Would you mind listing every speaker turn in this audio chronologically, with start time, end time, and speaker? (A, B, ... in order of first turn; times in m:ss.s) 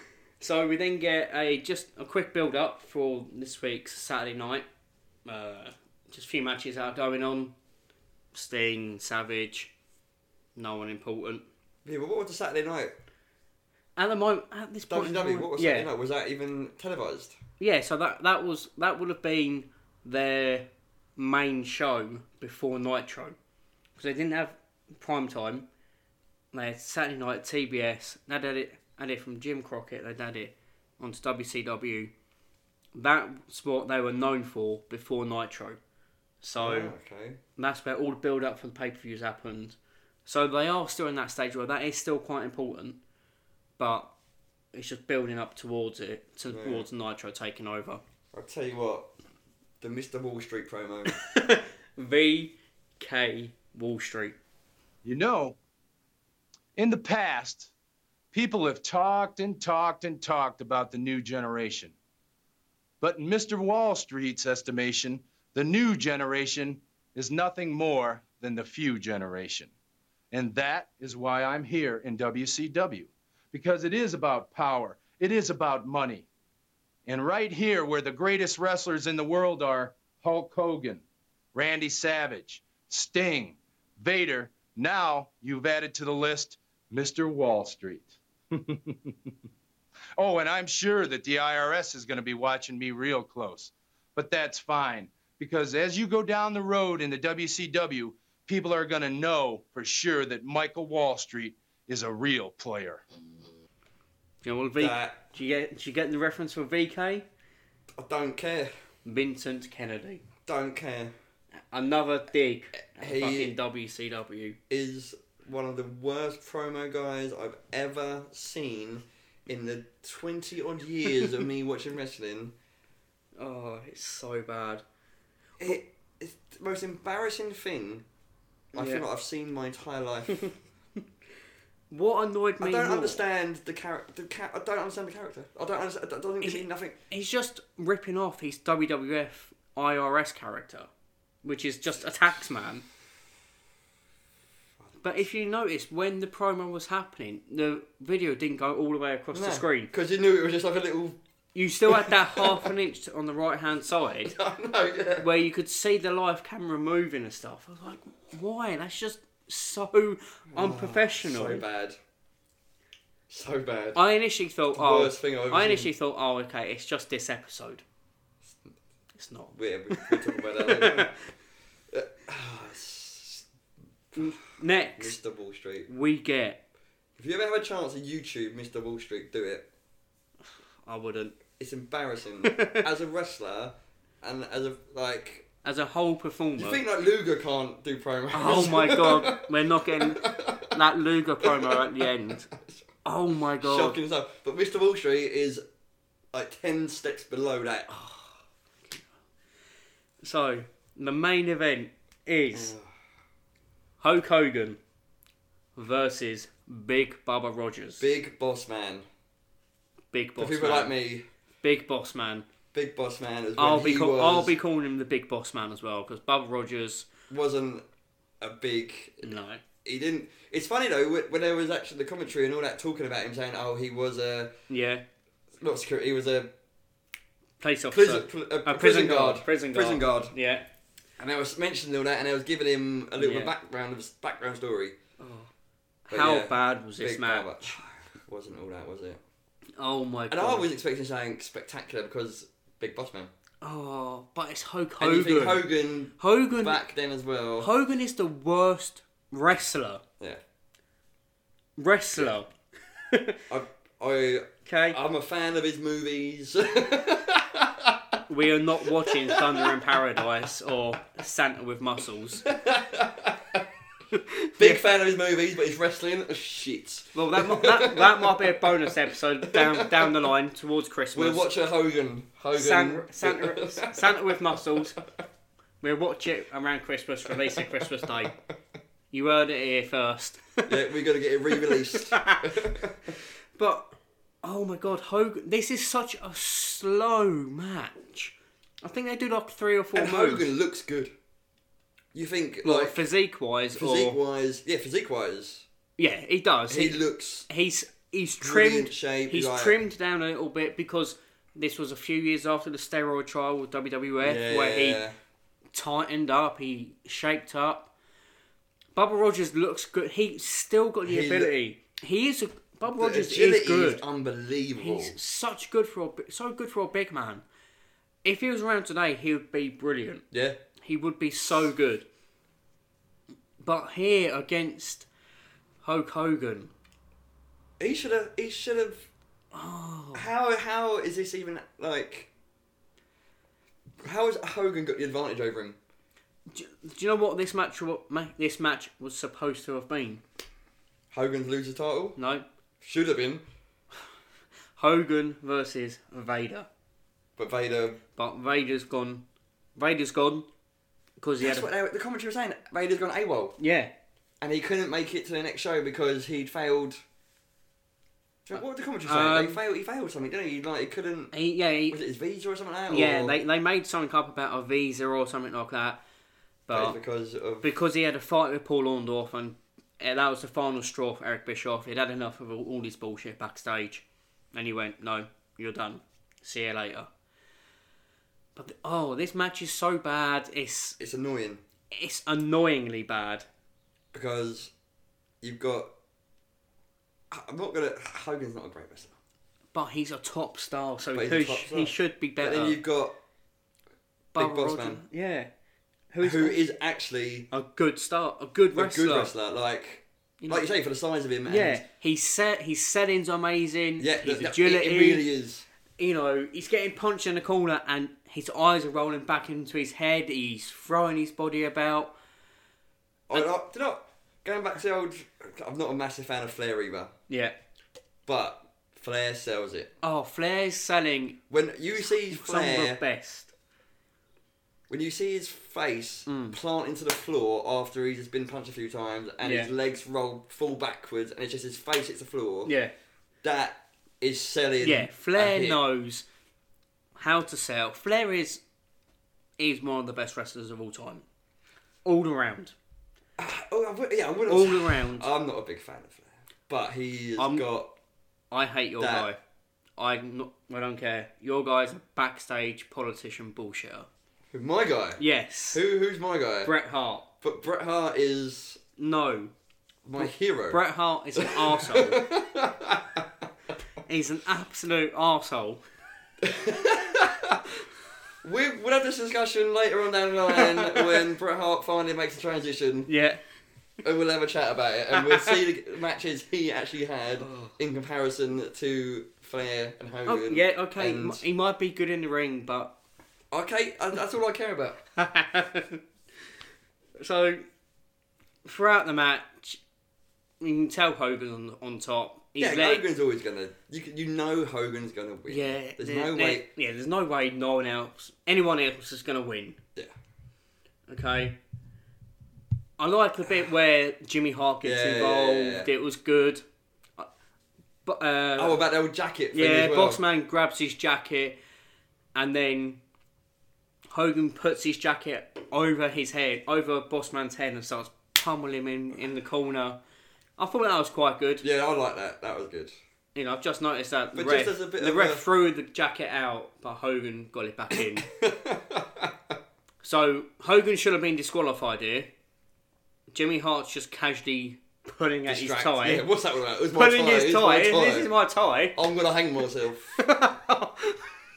0:00.4-0:04.7 A
0:05.3-0:07.5 A
0:08.3-0:09.7 A
0:10.6-0:11.4 A
0:11.8-0:12.9 B
0:14.0-0:15.9 A
0:14.9-0:17.4 B
0:17.6-0:23.4 A
0:24.0-0:25.7 A
0:26.5-0:32.1 A
0:33.0-0:35.8 A
0:36.4-0:36.9 A
0:36.6-0:37.4 B
0:37.6-0:43.0 A
0:43.8-0:44.1 A
0:44.7-0:48.0 A
0:46.5-0:46.9 B
0:48.3-0:49.1 B
0:49.8-0:51.2 B
0:51.1-0:54.4 A
0:55.0-0:55.6 C
0:56.8-0:57.7 C
0:58.3-1:01.9 C
1:03.0-1:09.7 C
1:10.3-1:16.3 C
1:17.1-1:21.0 C
1:21.5-1:29.2 C
1:30.2-1:43.0 C
1:44.4-1:47.3 A
1:44.8-1:45.2 B
1:48.0-1:48.7 B
1:49.0-1:50.2 A
1:50.5-1:51.1 B
1:51.7-1:54.6 A
1:53.0-1:53.6 B
1:54.7-2:02.5 B
2:03.4-2:04.8 A
2:05.6-2:08.0 B
2:08.7-2:10.5 B
2:08.7-2:09.0 A
2:11.9-2:13.2 A
2:12.6-2:17.0 B
2:16.4-2:20.9 A
2:21.4-2:22.8 A
2:25.0-2:29.9 A
2:29.3-2:31.2 B
2:31.6-2:34.3 A
2:31.9-2:32.7 B
2:34.2-2:35.3 B
2:35.2-2:41.6 A
2:40.5-2:42.0 B
2:43.3-2:44.0 B
2:44.0-2:47.8 A
2:44.8-2:45.9 B
2:48.5-2:48.7 B
2:49.2-2:51.1 A
2:49.5-2:51.1 B
2:51.9-2:53.4 B
2:54.1-2:54.4 B
2:54.2-2:55.2 A
2:55.0-2:55.9 B
2:55.9-2:56.6 A
2:57.2-2:59.7 B
3:00.8-3:01.4 A
3:01.6-3:05.5 B
3:02.4-3:02.8 A
3:05.6-3:06.8 A
3:06.6-3:10.7 B
3:08.3-3:12.5 A
3:11.4-3:12.8 B
3:13.0-3:14.0 A
3:13.6-3:15.6 B
3:16.3-3:17.9 B
3:17.9-3:18.4 A
3:20.2-3:22.7 A
3:22.5-3:22.9 B
3:24.0-3:24.8 A
3:25.8-3:28.1 A
3:28.0-3:29.1 B
3:30.1-3:30.9 A
3:30.4-3:31.3 B
3:31.6-3:32.5 A
3:32.7-3:34.6 B
3:33.6-3:37.1 A
3:37.3-3:37.8 B
3:38.4-3:39.3 B
3:39.2-3:39.6 A
3:39.8-3:44.5 B
3:44.7-3:45.0 A
3:45.6-3:46.5 B
3:47.6-3:50.6 A
3:47.9-3:50.3 B
3:51.2-3:55.0 B
3:53.2-3:53.5 A
3:55.2-3:55.5 A
3:56.1-3:57.7 A
3:56.1-3:59.2 B
3:59.8-4:00.7 A
4:00.3-4:03.3 B
4:03.6-4:06.8 A
4:05.0-4:07.7 B
4:07.6-4:10.0 A
4:11.8-4:12.5 A
4:13.1-4:13.4 A
4:13.5-4:18.2 B
4:14.7-4:15.0 A
4:18.3-4:22.4 A
4:19.0-4:19.8 B
4:22.4-4:23.6 B
4:24.2-4:24.8 A
4:24.6-4:30.2 B
4:27.1-4:31.5 A
4:31.1-4:34.4 B
4:32.5-4:35.0 A
4:35.8-4:38.4 A
4:37.5-4:38.3 B
4:39.1-4:40.7 A
4:40.7-4:43.1 B
4:41.5-4:42.5 A
4:43.6-4:50.5 A
4:49.9-4:51.1 B
4:52.1-4:53.0 B
4:52.6-4:54.2 A
4:53.7-4:55.7 B
4:56.0-5:05.0 A
4:56.7-4:57.5 B
4:58.4-4:59.8 B
5:04.2-5:05.2 B
5:05.7-5:07.9 A
5:09.0-5:14.0 A
5:11.0-5:11.5 B
5:12.9-5:15.2 B
5:14.8-5:17.4 A
5:18.2-5:20.2 A
5:20.3-5:20.6 B
5:20.8-5:22.1 A
5:23.6-5:25.1 A
5:25.8-5:26.7 A
5:27.8-5:29.1 B
5:29.5-5:30.3 A
5:30.1-5:32.3 B
5:34.0-5:35.8 B
5:36.5-5:40.2 A
5:41.1-5:42.2 B
5:42.2-5:42.4 A
5:42.8-5:43.4 B
5:44.8-5:46.7 A
5:47.4-5:48.0 B
5:48.2-5:49.2 A
5:49.8-5:50.5 A
5:51.2-5:51.7 A
5:51.4-5:53.6 B
5:53.6-5:53.9 A
5:54.4-5:57.0 B
5:58.5-6:01.3 B
5:58.5-5:59.6 A
6:01.3-6:02.0 A
6:01.9-6:03.4 B
6:02.9-6:06.0 A
6:06.7-6:07.0 A
6:06.7-6:07.7 B
6:07.6-6:17.1 A
6:18.6-6:21.0 A
6:21.0-6:21.6 B
6:21.9-6:23.4 A
6:24.1-6:24.7 B
6:25.4-6:25.9 B
6:27.3-6:29.2 B
6:29.7-6:32.8 A
6:31.1-6:33.2 B
6:34.3-6:35.5 A
6:34.4-6:35.0 B
6:36.1-6:36.6 A
6:36.2-6:37.5 B
6:37.5-6:39.3 A
6:38.8-6:41.8 B
6:40.4-6:40.7 A
6:41.5-6:45.3 A
6:44.0-6:45.6 B
6:46.0-6:52.1 A
6:53.3-6:57.1 B
6:57.3-6:57.6 A
6:58.3-6:59.9 B
7:00.0-7:01.4 A
7:01.5-7:03.0 B
7:02.0-7:03.5 A
7:04.9-7:12.7 B
7:06.3-7:06.6 A
7:09.4-7:09.7 A
7:12.7-7:12.9 A
7:13.4-7:15.8 B
7:14.8-7:16.2 A
7:17.2-7:18.6 A
7:19.6-7:21.2 A
7:22.0-7:22.7 A
7:23.4-7:27.9 B
7:24.5-7:25.3 A
7:27.4-7:27.7 A
7:28.5-7:29.4 A
7:29.0-7:29.3 B
7:30.0-7:34.1 A
7:34.5-7:36.7 B
7:35.2-7:35.8 A
7:36.6-7:37.3 A
7:37.4-7:38.8 B
7:39.0-7:39.5 A
7:40.0-7:40.8 B
7:40.2-7:42.2 A
7:41.4-7:43.3 B
7:44.1-7:45.8 A
7:46.4-7:47.6 B
7:48.4-7:53.1 B
7:50.5-7:51.2 A
7:53.1-7:53.4 A
7:54.0-8:01.4 B
7:55.2-7:55.6 A
7:57.4-7:57.7 A
8:00.3-8:02.9 A
8:03.5-8:05.0 B
8:05.2-8:06.0 A
8:07.2-8:07.6 A
8:08.6-8:09.8 A
8:10.6-8:13.0 A
8:12.6-8:16.7 B
8:15.5-8:19.8 A
8:21.1-8:21.6 A
8:23.0-8:26.6 A
8:24.8-8:25.9 B
8:28.0-8:28.8 A
8:28.6-8:30.2 B
8:29.5-8:31.6 A
8:32.4-8:33.0 A
8:34.1-8:40.0 A
8:40.6-8:41.6 A
8:41.6-8:42.9 B
8:43.4-8:48.3 A
8:44.3-8:45.5 B
8:48.0-8:49.3 B
8:50.0-8:52.3 A
8:53.3-8:56.3 A
8:55.5-8:58.3 B
8:56.9-8:59.0 A
8:58.9-9:00.2 B
9:00.2-9:01.2 A